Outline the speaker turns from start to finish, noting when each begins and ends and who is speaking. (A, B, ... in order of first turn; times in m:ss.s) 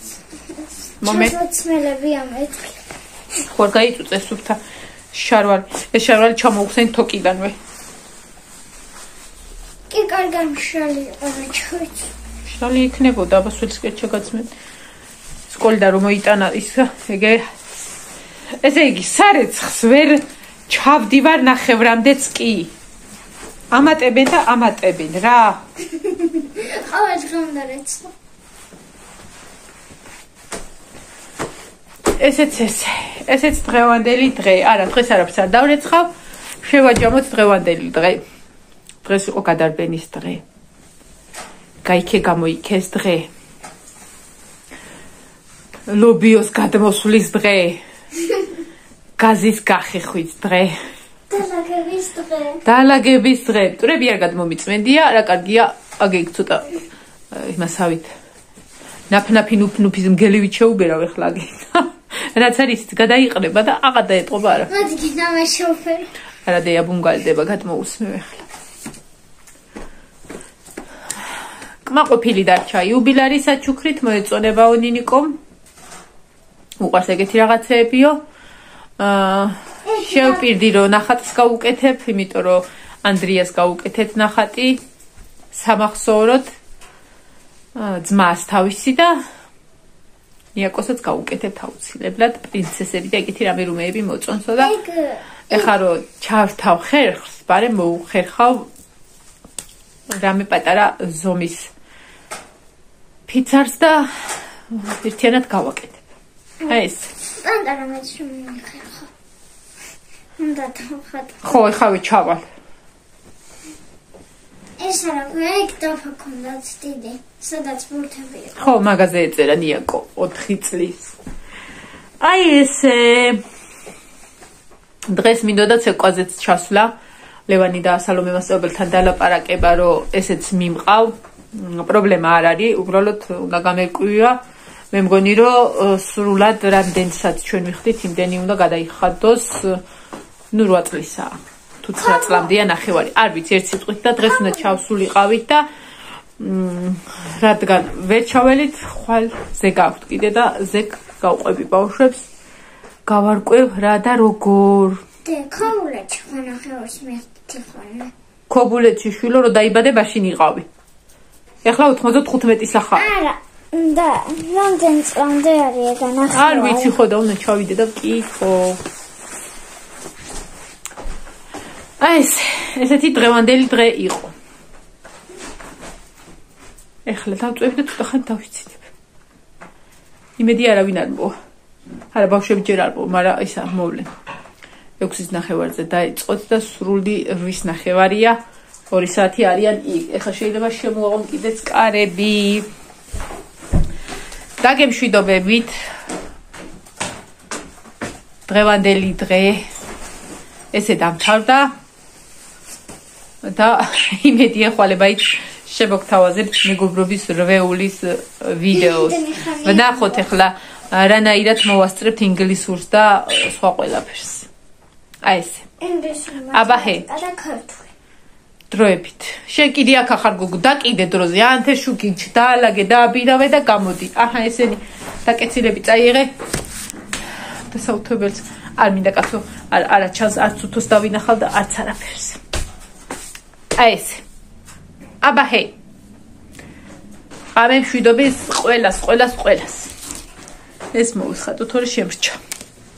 0:00.6-0:02.8 A
0:01.0-0:01.4 B
0:03.4-0:04.6 B
0:05.1-0:07.6 B
0:09.9-0:12.1 A
0:12.4-0:14.5 B
0:15.5-0:17.4 B
0:18.6-0:22.7 B
0:23.7-0:25.6 B
0:25.9-0:28.1 A
0:32.2-0:36.1 B
0:36.6-0:38.2 B
0:39.0-0:40.4 B
0:41.8-0:43.3 B
0:45.9-0:47.8 B
0:49.2-0:50.8 B
0:51.3-0:52.6 A
0:52.6-0:56.8 B
0:57.3-0:58.1 B
0:59.1-1:04.7 B
1:04.7-1:06.1 A
1:06.5-1:08.5 B
1:11.8-1:15.4 B
1:16.8-1:18.2 B
1:19.0-1:24.8 B
1:19.9-1:20.5 A
1:25.5-1:26.5 B
1:27.8-1:29.2 B
1:30.6-1:34.8 B
1:34.6-1:35.7 A
1:35.5-1:38.7 B
1:40.1-1:41.7 B
1:43.3-1:46.0 B
1:46.6-1:49.1 A
1:46.6-1:47.1 B
1:50.4-1:51.6 A
1:51.4-1:52.4 B
1:54.8-1:58.7 A
1:58.6-2:01.2 B
2:02.2-2:03.4 B
2:05.1-2:06.9 B
2:07.5-2:14.4 B
2:14.9-2:19.8 B
2:20.5-2:25.7 B
2:22.1-2:22.5 A
2:26.4-2:32.2 B
2:33.1-2:35.0 B
2:35.2-2:38.1 A
2:38.5-2:40.6 B
2:41.6-2:43.1 B
2:43.0-2:46.9 A
2:46.3-2:48.8 B
2:52.0-2:54.3 B
2:57.1-2:58.8 B
3:00.4-3:01.3 B
3:02.1-3:04.1 B
3:05.0-3:08.4 B
3:08.9-3:12.7 B
3:14.6-3:15.7 B
3:18.5-3:19.6 B
3:20.7-3:21.7 B
3:23.4-3:34.5 B
3:28.7-3:30.3 A
3:35.2-3:35.7 B
3:35.8-3:37.9 A
3:36.5-3:37.0 B
3:38.7-3:46.3 B
3:47.7-3:52.4 B
3:53.8-3:54.2 B
3:55.2-3:55.8 B
3:57.6-3:59.9 B
4:00.9-4:02.4 B